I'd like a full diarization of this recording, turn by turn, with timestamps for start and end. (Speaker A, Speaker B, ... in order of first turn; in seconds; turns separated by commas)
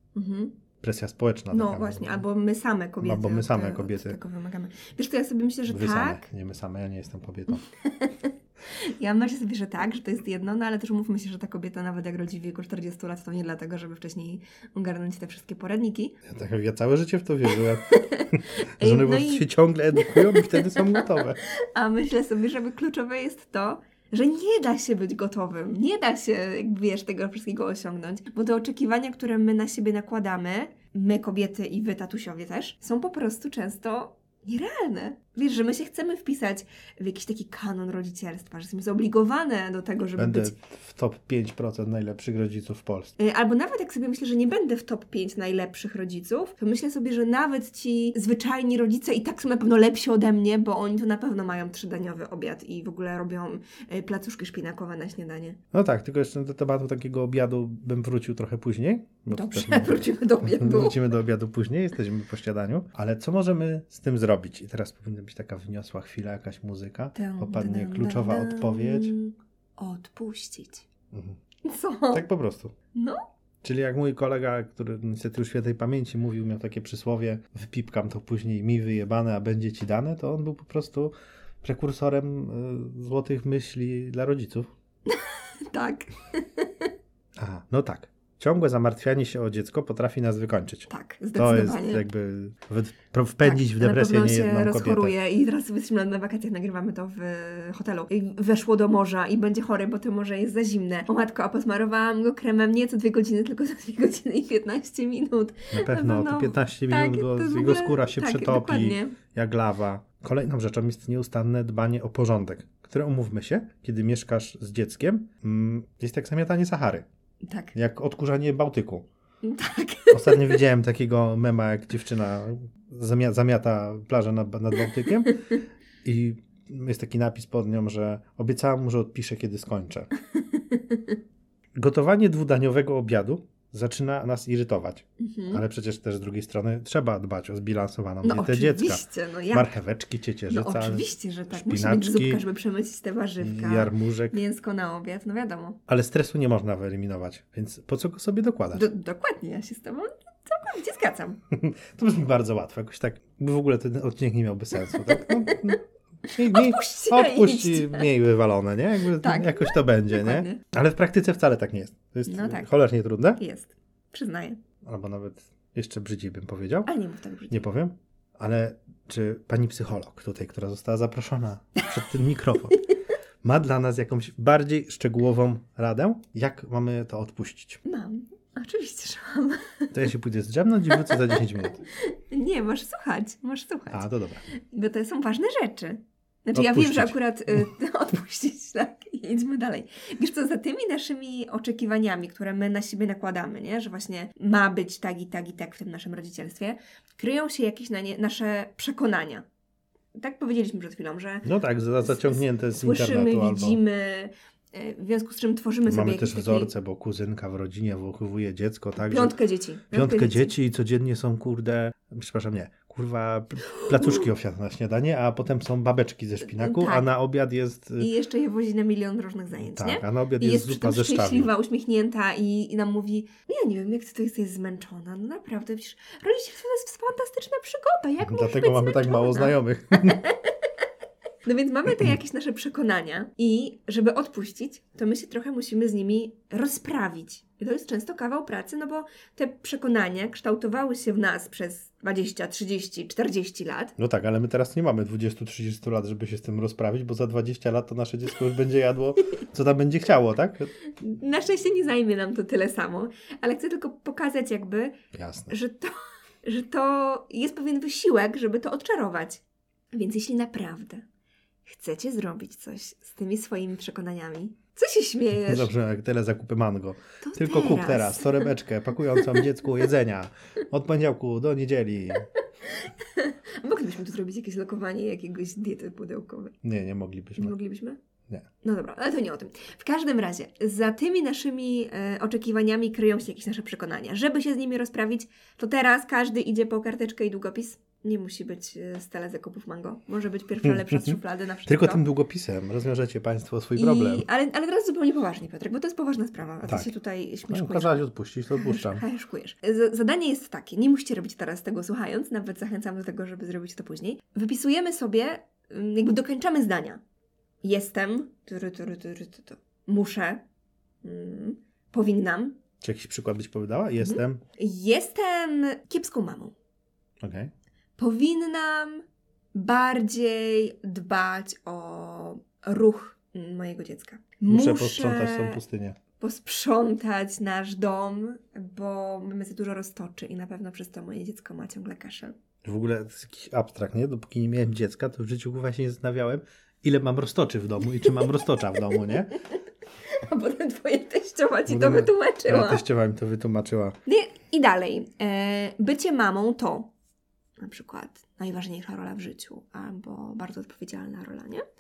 Speaker A: 0.1-0.6, Speaker B: 0.8-2.2, Speaker A: 1.5-6.2, Speaker B: 3.0-4.2, Speaker B: 5.7-7.6, Speaker A: 7.5-16.2, Speaker B: 16.2-21.4, Speaker A: 17.9-40.6, Speaker B: 40.2-43.1, Speaker A: 43.2-55.6, Speaker B: 55.7-69.1, Speaker A: 59.3-61.0, Speaker A: 67.1-70.9, Speaker B: 71.1-71.4, Speaker A: 71.6-72.2, Speaker B: 72.1-72.7, Speaker A: 72.9-73.2, Speaker B: 73.6-84.7, Speaker A: 85.1-86.9, Speaker B: 87.4-95.2, Speaker A: 90.9-92.0, Speaker A: 93.4-109.2, Speaker B: 105.7-117.1, Speaker A: 117.4-117.7, Speaker B: 117.7-119.1, Speaker A: 119.4-120.6, Speaker B: 120.1-125.5, Speaker B: 126.0-130.1, Speaker A: 130.3-131.2, Speaker B: 131.8-142.4, Speaker A: 135.2-135.6, Speaker A: 138.2-139.7, Speaker A: 140.5-145.8, Speaker B: 143.4-144.4, Speaker B: 145.9-148.9, Speaker A: 148.7-151.4, Speaker B: 151.5-163.4, Speaker A: 155.0-155.8, Speaker A: 156.3-158.1, Speaker A: 159.2-160.6, Speaker A: 162.3-162.7, Speaker A: 163.4-164.6, Speaker B: 164.8-166.9, Speaker A: 166.9-167.6, Speaker B: 167.5-172.9, Speaker B: 173.4-177.8, Speaker A: 177.8-179.9, Speaker B: 179.9-181.8, Speaker A: 180.9-181.4, Speaker A: 181.9-199.4, Speaker B: 183.9-184.4, Speaker B: 186.5-187.6, Speaker A: 200.2-201.5, Speaker B: 201.4-203.8, Speaker A: 202.0-206.7, Speaker B: 205.9-209.4, Speaker A: 209.0-210.5, Speaker B: 209.9-218.1, Speaker A: 213.8-214.2, Speaker A: 216.4-217.1, Speaker A: 218.0-230.5, Speaker B: 219.6-221.5, Speaker B: 228.2-230.2, Speaker A: 231.4-243.9, Speaker B: 244.0-250.7, Speaker A: 251.0-254.9, Speaker B: 255.1-255.5, Speaker A: 255.5-259.4, Speaker A: 259.9-261.0, Speaker A: 261.6-265.7, Speaker B: 265.3-272.3, Speaker A: 267.2-268.5, Speaker A: 272.6-276.6, Speaker B: 276.6-277.5, Speaker A: 277.4-278.0, Speaker A: 278.6-292.0, Speaker B: 290.6-294.2, Speaker A: 293.8-307.0, Speaker B: 296.6-296.9, Speaker B: 297.5-299.0, Speaker A: 307.6-310.4, Speaker A: 311.0-312.6, Speaker B: 312.8-314.4, Speaker A: 314.0-316.5, Speaker B: 317.2-317.5, Speaker A: 318.0-325.6, Speaker B: 324.5-326.0, Speaker A: 326.2-332.4, Speaker B: 332.6-339.3, Speaker A: 340.1-342.8, Speaker B: 341.7-344.0, Speaker A: 344.1-346.9, Speaker A: 347.6-351.6